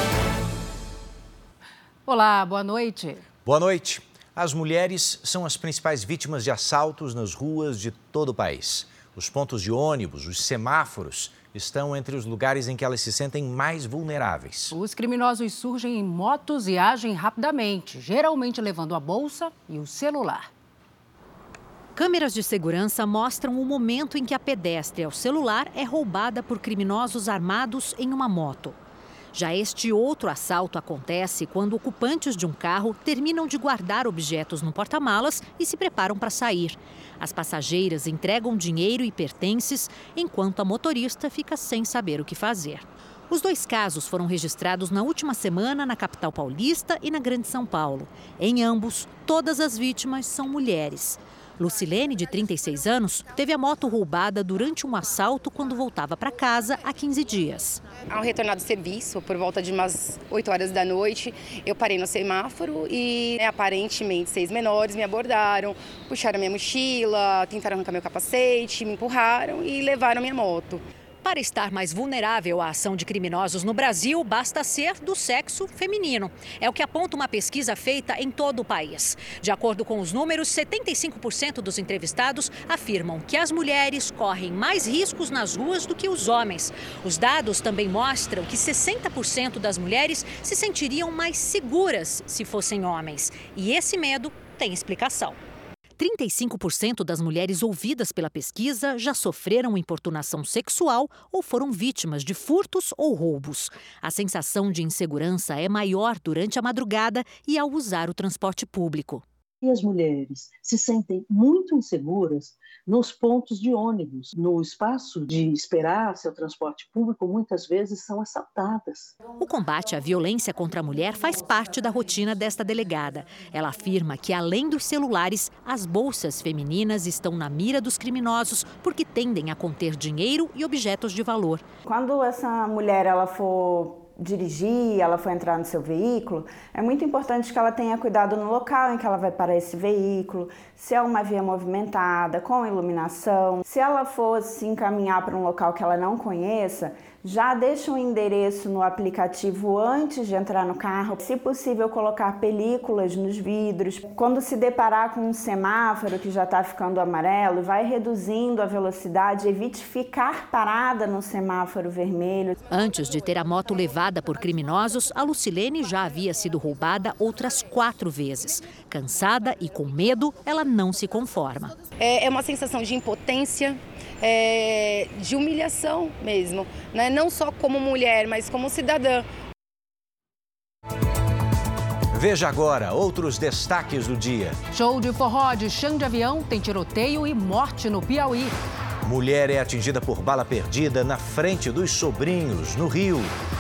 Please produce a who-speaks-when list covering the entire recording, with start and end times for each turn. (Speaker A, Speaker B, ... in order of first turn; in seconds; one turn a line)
Speaker A: 2.1-3.2
Speaker B: 3.5-14.8
Speaker A: 14.7-20.5
Speaker C: 21.9-28.8
Speaker C: 29.3-57.8
Speaker D: 58.1-70.8
Speaker C: 71.2-95.4
Speaker C: 96.0-109.2
Speaker E: 109.6-119.1
Speaker C: 119.4-131.6
Speaker F: 131.9-162.6
Speaker C: 162.7-171.7
Speaker D: 172.0-179.3
Speaker B: 182.1-184.6
Speaker A: 184.7-188.5
Speaker B: 189.0-193.3